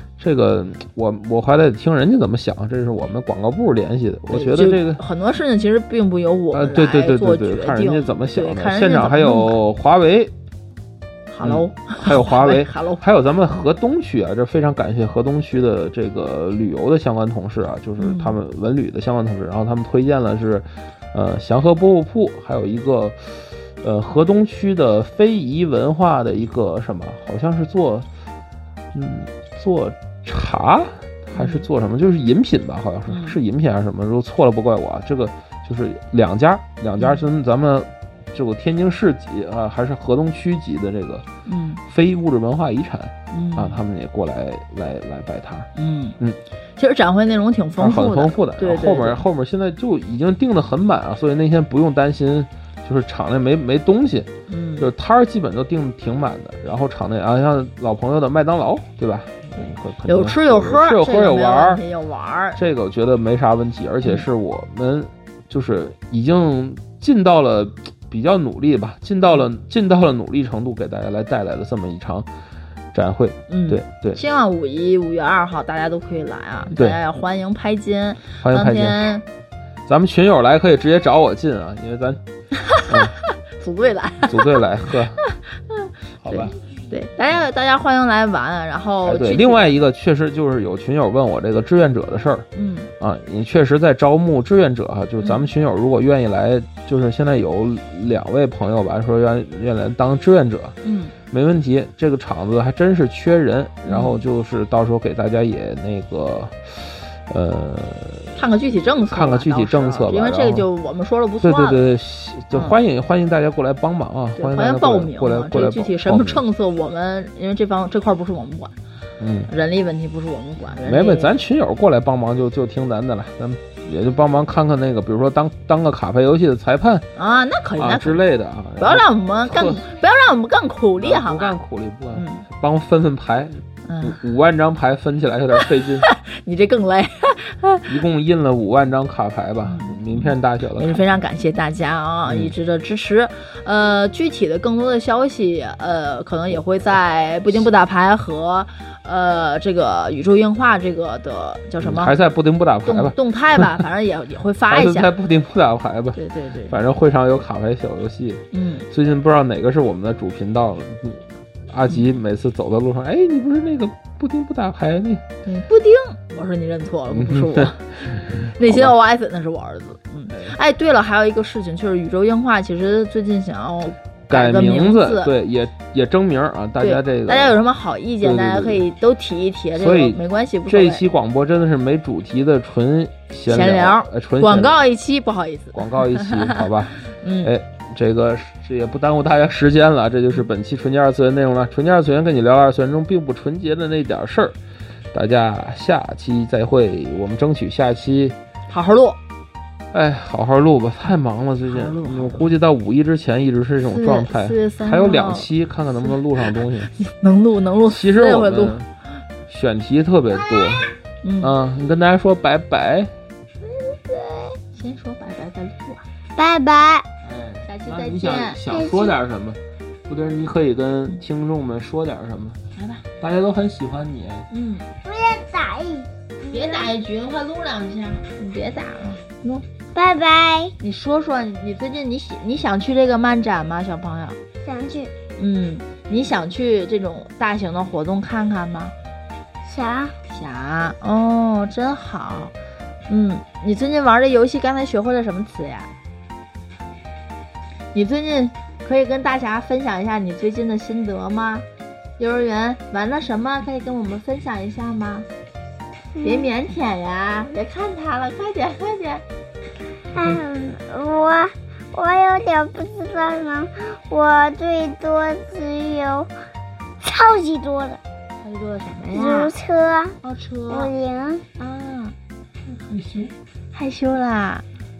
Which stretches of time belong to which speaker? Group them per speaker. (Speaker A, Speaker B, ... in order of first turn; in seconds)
Speaker A: 0.2-5.0, 6.5-10.3, 11.4-28.1, 28.9-41.2, 41.9-45.7, 47.8-61.8, 62.5-72.3, 72.9-74.2, 76.7-77.0, 78.4-79.1, 79.9-82.2, 82.9-83.1, 84.2-85.2, 86.2-86.6, 89.0-92.5, 93.0-100.8, 101.3-108.5, 109.0-110.7, 111.4-116.4, 119.2-119.5, 120.8-127.1, 127.8-129.9, 131.0-136.1, 137.9-141.0, 142.3-142.5, 151.8-153.7, 154.7-165.2, 167.1-168.9, 170.3-170.6, 174.3-177.6, 178.2-178.9, 179.7-184.8, 185.7-194.6, 195.1-198.4, 199.9-206.9, 207.9-208.9, 209.5-213.1, 217.2-222.6, 223.2-224.5, 272.7-273.3
Speaker B: 4.3-9.6, 11.3-13.0, 18.0-18.4, 31.4-31.7, 33.1-33.4, 37.0-37.3, 41.5-41.8, 43.3-43.8, 45.8-46.2, 46.8-49.2, 54.5-54.9, 59.6-62.6, 73.5-79.2, 82.6-84.6, 85.2-89.8, 92.5-92.9, 95.2-95.5, 100.8-101.1, 103.9-104.2, 108.4-111.8, 112.5-112.8, 114.4-118.7, 119.5-121.3, 127.2-128.2, 128.8-131.6, 132.1-132.5, 133.9-134.2, 135.6-137.9, 139.6-152.2, 152.8-155.1, 156.2-156.8, 158.5-158.9, 165.4-175.3, 176.8-181.1, 183.5-187.5, 198.7-199.2, 201.7-202.5, 203.8-205.5, 206.9-208.8, 211.2-211.5, 213.9-216.0, 217.6-218.6, 222.8-223.0, 224.5-224.9, 226.5-229.6, 230.8-234.4, 235.4-238.9, 240.3-242.5, 243.1-245.9, 247.9-251.7, 252.2-255.3, 256.2-259.2, 268.4-269.5, 270.2-270.9, 271.6-272.2, 273.7-274.7
Speaker C: 216.3-217.1, 218.7-219.2, 225.0-226.9, 229.9-230.8, 234.6-235.1, 239.6-240.2, 256.1-256.5, 260.1-266.3, 267.0-268.0, 269.1-270.1, 270.7-271.4